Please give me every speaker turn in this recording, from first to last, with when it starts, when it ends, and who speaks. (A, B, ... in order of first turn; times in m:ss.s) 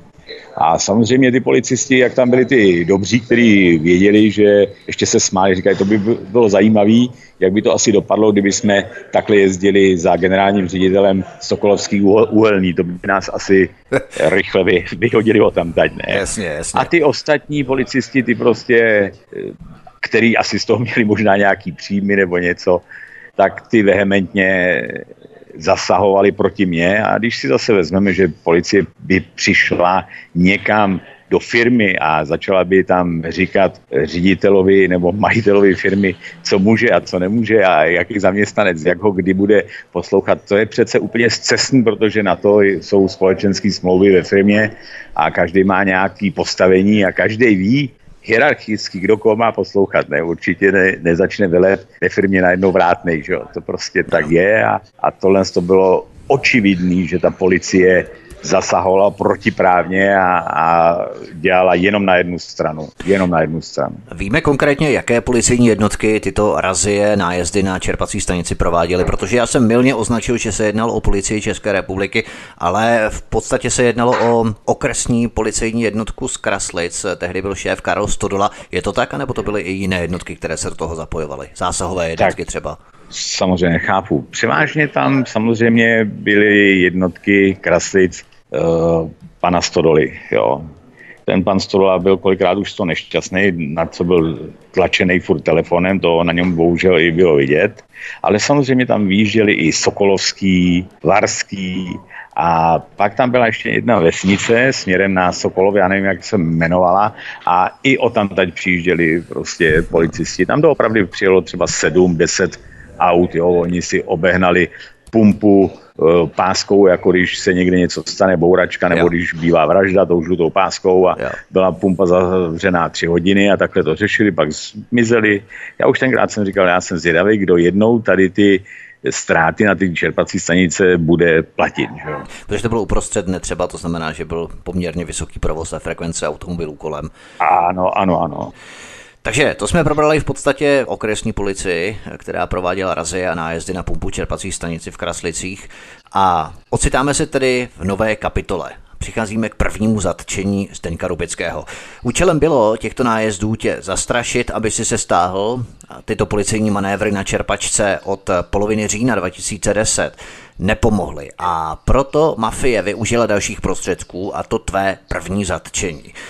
0:00.6-0:16.2 A
0:16.1-0:16.9 B
0:16.8-0:22.8 A
0:23.4-1:04.0 A
1:04.1-1:22.8 B
1:23.1-1:30.7 A
1:31.3-2:12.3 A
2:12.5-2:17.1 B
2:17.4-2:18.5 A
2:19.2-2:46.1 B